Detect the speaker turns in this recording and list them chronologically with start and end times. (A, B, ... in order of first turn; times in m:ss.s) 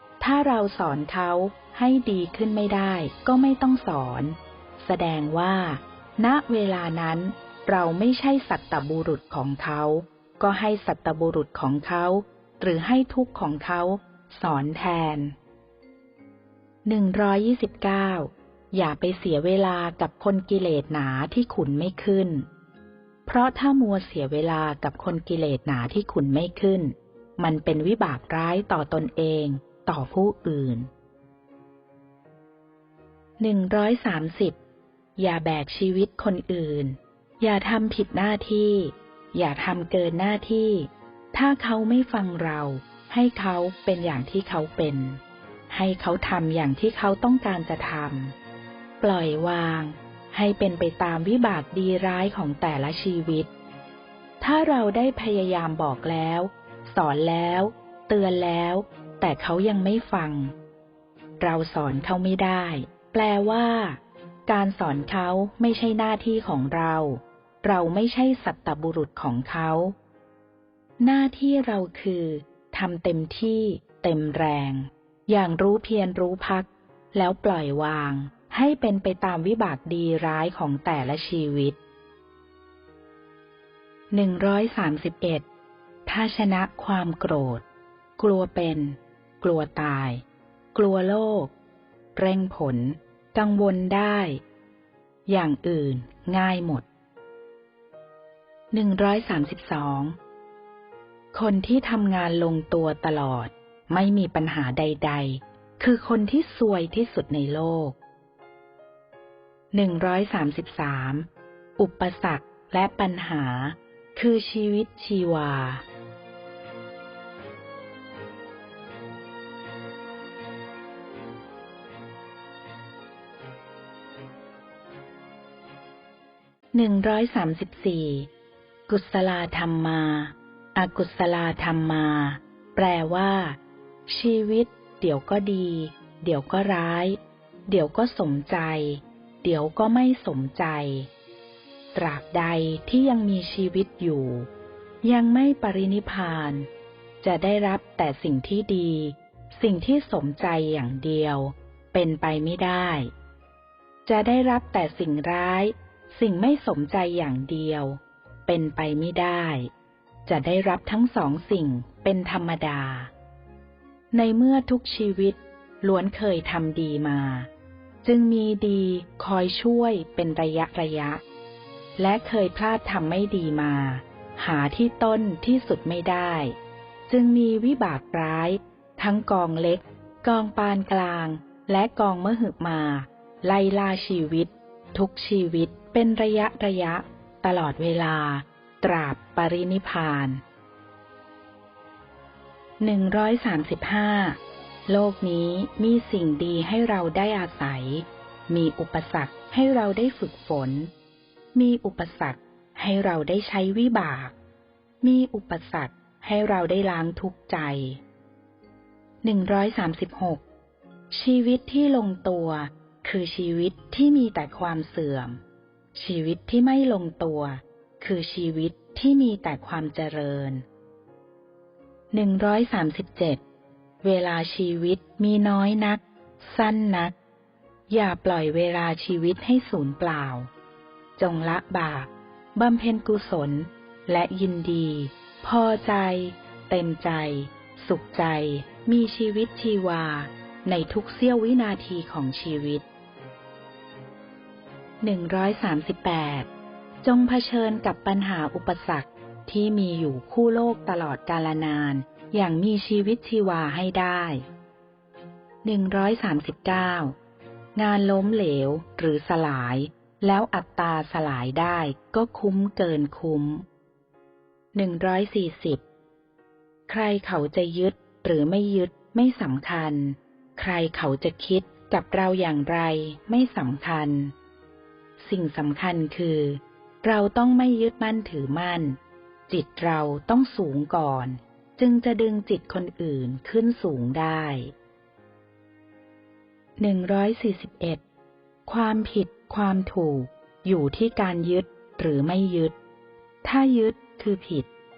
0:00.2-0:15.3 A
0:16.8-0:22.5 A
0:23.2-0:30.9 A
0:33.4-0:34.6 A
0:35.2-0:48.3 A
0:49.0-0:53.5 A
0:54.4-1:00.5 A
1:01.4-1:09.9 A
1:11.0-1:21.8 A
1:24.1-1:25.4 A
1:26.0-1:27.6 A
1:28.2-1:31.5 A
1:32.1-1:34.4 A
1:35.3-1:36.8 A
1:38.7-1:40.2 A
1:41.3-1:48.0 A
1:49.7-1:51.3 A
1:51.8-1:55.8 A
2:06.7-2:08.3 A
2:08.9-2:21.1 A
2:21.9-2:24.5 A
2:25.0-2:26.7 A
2:27.2-2:33.1 A
2:34.0-2:39.7 A
2:40.2-2:43.1 A
2:44.1-2:47.5 A
2:48.0-2:51.2 A
2:52.0-2:56.6 A
2:57.1-3:10.4 A
3:12.8-3:20.9 A
3:21.5-3:24.3 A
3:25.0-3:28.0 A
3:29.2-3:30.4 A
3:31.1-3:35.4 A
3:35.9-3:40.6 A
3:42.1-3:43.4 A
3:44.0-3:47.1 A
3:47.9-3:50.5 A
3:51.2-4:02.8 A
4:05.0-4:06.5 A
4:07.0-4:14.4 A
4:15.6-4:17.2 A
4:17.7-4:23.6 A
4:24.7-4:25.8 A
4:26.9-4:34.3 A
4:35.2-4:44.7 A
4:46.8-4:48.0 A
4:48.6-4:52.7 A
4:53.4-4:54.7 A